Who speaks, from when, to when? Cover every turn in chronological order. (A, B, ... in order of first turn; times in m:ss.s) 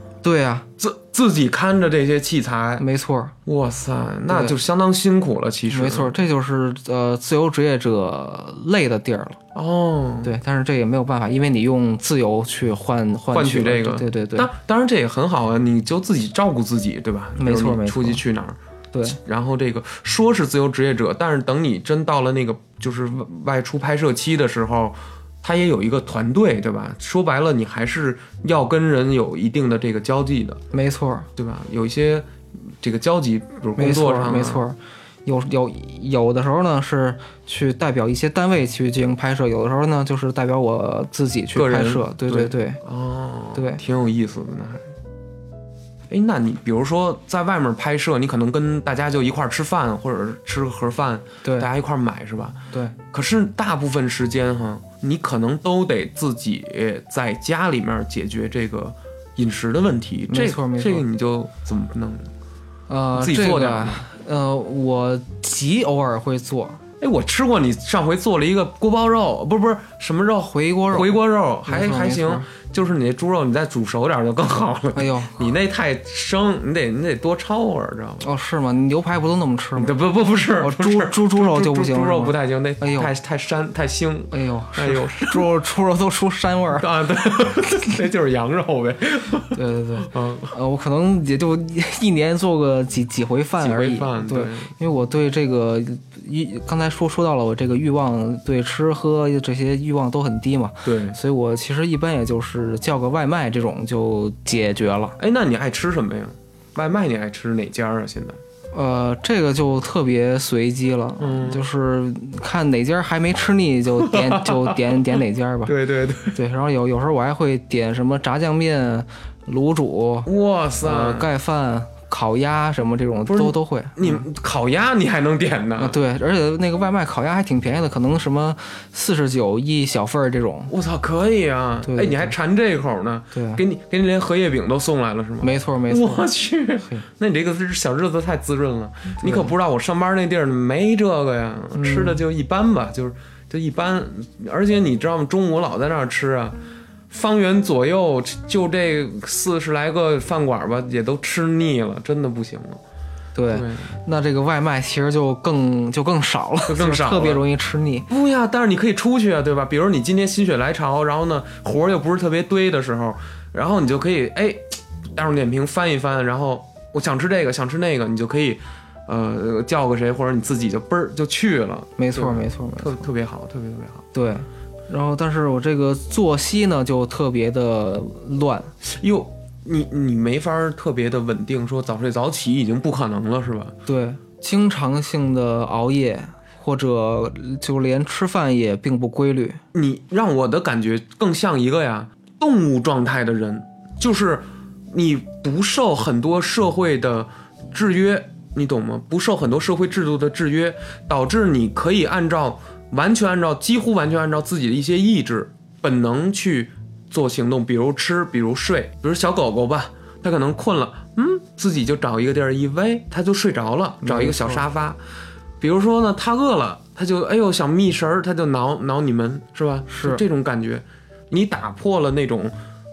0:00.2-0:00.7 A
0:00.8-0:02.8 B
0:02.8-0:03.3 A
0:03.4-0:06.2 B
0:04.3-0:04.6 A
0:05.7-0:09.4 A
0:09.5-0:10.4 B
0:10.2-0:14.5 A
0:13.3-0:30.6 B
0:17.4-0:18.2 A
0:30.7-0:31.3 A
0:31.4-0:34.6 B
0:33.8-0:42.8 A
0:41.6-0:44.9 B
0:43.6-0:43.8 A
0:46.1-0:52.6 B
0:53.1-1:02.3 B
1:00.3-1:01.0 A
1:02.9-1:06.8 A
1:03.1-1:04.1 B
1:07.0-1:18.3 B
1:10.5-1:12.5 A
1:15.0-1:15.4 A
1:18.2-1:19.9 A
1:19.8-1:25.4 B
1:20.6-1:23.1 A
1:24.3-1:26.9 A
1:26.7-1:30.5 B
1:29.5-1:45.2 A
1:33.6-1:34.7 B
1:40.8-1:41.2 B
1:45.2-1:48.4 B
1:48.7-1:55.7 A
1:51.2-1:51.6 B
1:54.0-1:56.4 B
1:56.3-2:00.3 A
2:00.3-2:01.3 B
2:00.8-2:04.2 A
2:03.3-2:06.0 B
2:05.8-2:10.7 A
2:10.7-2:26.6 B
2:11.8-2:12.4 A
2:13.3-2:13.6 A
2:15.4-2:16.3 A
2:19.2-2:19.5 A
2:21.8-2:22.2 A
2:27.1-2:32.8 B
2:33.4-2:38.1 A
2:33.5-2:34.0 B
2:36.7-2:37.4 B
2:38.1-2:54.0 B
2:52.0-2:53.1 A
2:54.1-2:58.7 A
2:58.8-3:03.7 B
3:03.9-3:09.6 A
3:09.7-3:35.0 B
3:34.0-3:34.6 A
3:35.6-3:42.6 B
3:39.9-3:40.2 A